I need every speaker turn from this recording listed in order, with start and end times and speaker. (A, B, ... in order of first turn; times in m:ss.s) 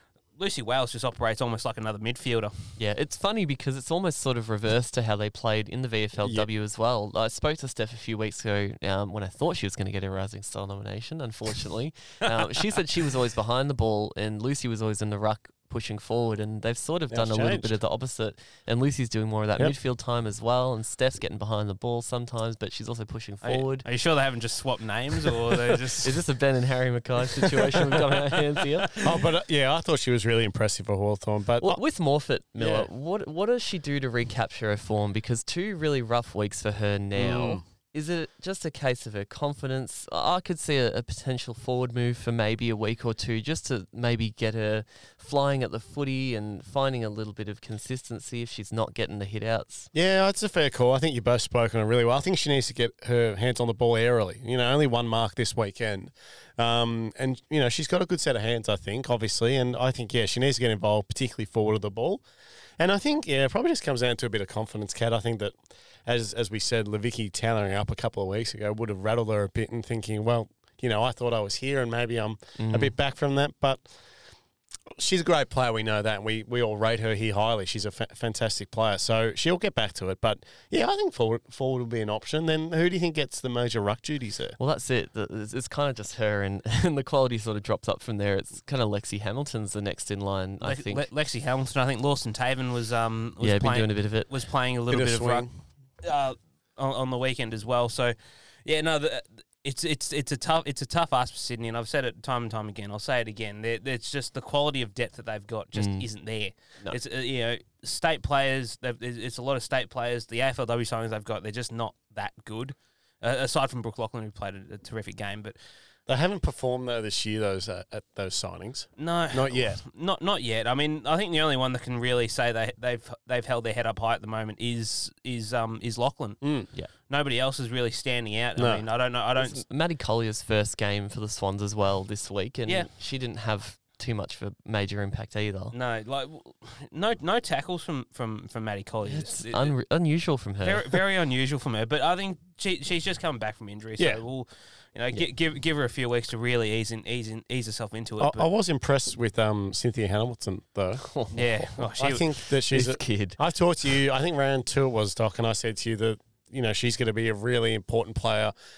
0:00.4-0:02.5 A
0:02.8-0:23.9 B
0:17.1-0:17.8 C
0:23.4-0:26.2 A
0:26.0-0:29.1 B
0:27.5-0:28.4 A
0:29.0-0:31.8 C
0:31.6-0:49.9 B
0:32.6-0:32.9 C
0:37.2-0:37.6 C
0:49.9-1:02.2 C
1:02.8-1:05.5 C
1:06.1-1:13.9 C
1:12.6-1:12.9 B
1:15.0-1:24.6 C
1:24.6-1:31.1 B
1:30.6-1:35.5 A
1:33.4-1:34.3 B
1:34.9-1:35.5 C
1:36.0-1:55.6 A
1:45.8-1:46.1 B
1:56.1-1:59.8 C
1:59.0-2:06.4 A
2:06.4-2:06.7 C
2:07.1-2:09.6 A
2:08.6-2:08.8 C
2:09.4-2:15.8 B
2:15.7-2:19.7 A
2:19.1-2:21.0 B
2:20.6-2:28.5 A
2:28.2-2:31.1 C
2:31.0-2:31.4 B
2:31.3-2:32.3 A
2:31.9-2:38.5 C
2:32.7-2:33.4 B